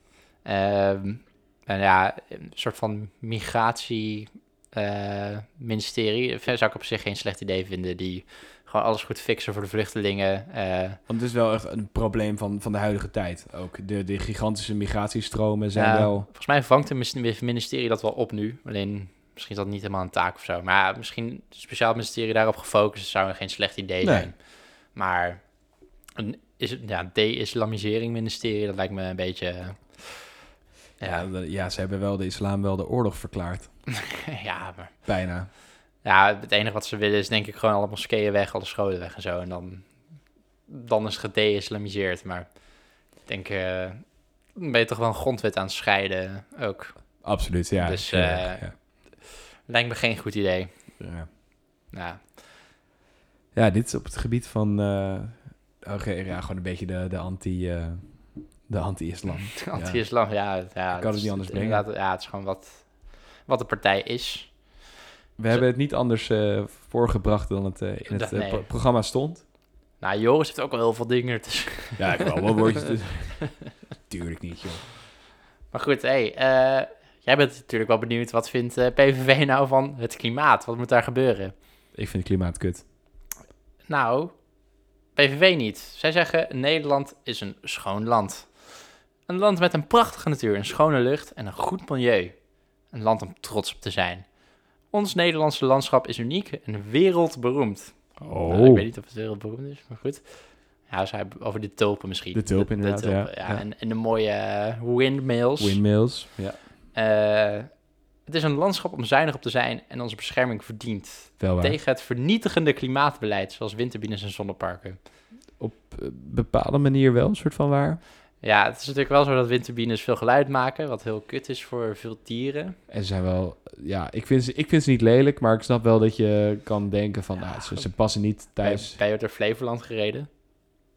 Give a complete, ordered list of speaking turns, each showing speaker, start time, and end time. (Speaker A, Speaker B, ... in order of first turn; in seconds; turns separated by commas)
Speaker A: 0.5-11.0, Speaker B: 11.1-16.3, Speaker A: 15.8-24.4, Speaker B: 24.0-24.3, Speaker A: 24.9-25.4, Speaker A: 26.2-30.3, Speaker A: 31.0-31.3, Speaker B: 31.0-33.7, Speaker A: 33.9-34.9, Speaker B: 35.1-35.5, Speaker A: 36.0-39.9, Speaker A: 40.7-42.5, Speaker A: 43.3-44.0, Speaker A: 44.5-47.0, Speaker B: 47.2-48.7, Speaker A: 47.8-48.9, Speaker A: 49.7-50.7, Speaker B: 51.0-51.3, Speaker A: 51.9-52.3, Speaker B: 53.5-60.1, Speaker A: 59.6-62.9, Speaker B: 60.9-61.9, Speaker A: 63.4-64.5, Speaker B: 65.4-69.4, Speaker A: 68.1-68.7, Speaker A: 70.0-73.7, Speaker B: 72.0-73.5, Speaker B: 74.1-74.9, Speaker A: 75.7-81.5, Speaker B: 82.0-82.8, Speaker A: 83.9-84.3, Speaker A: 85.2-88.5, Speaker A: 89.3-92.3, Speaker A: 92.9-94.3, Speaker A: 94.9-100.2, Speaker B: 98.2-98.9, Speaker A: 100.9-105.8, Speaker B: 102.3-103.6, Speaker B: 105.6-106.6, Speaker A: 106.9-107.7, Speaker A: 108.3-115.0, Speaker B: 111.4-111.8, Speaker B: 115.6-118.0, Speaker A: 118.4-122.8, Speaker B: 122.9-129.0, Speaker A: 127.5-127.9, Speaker A: 128.6-130.3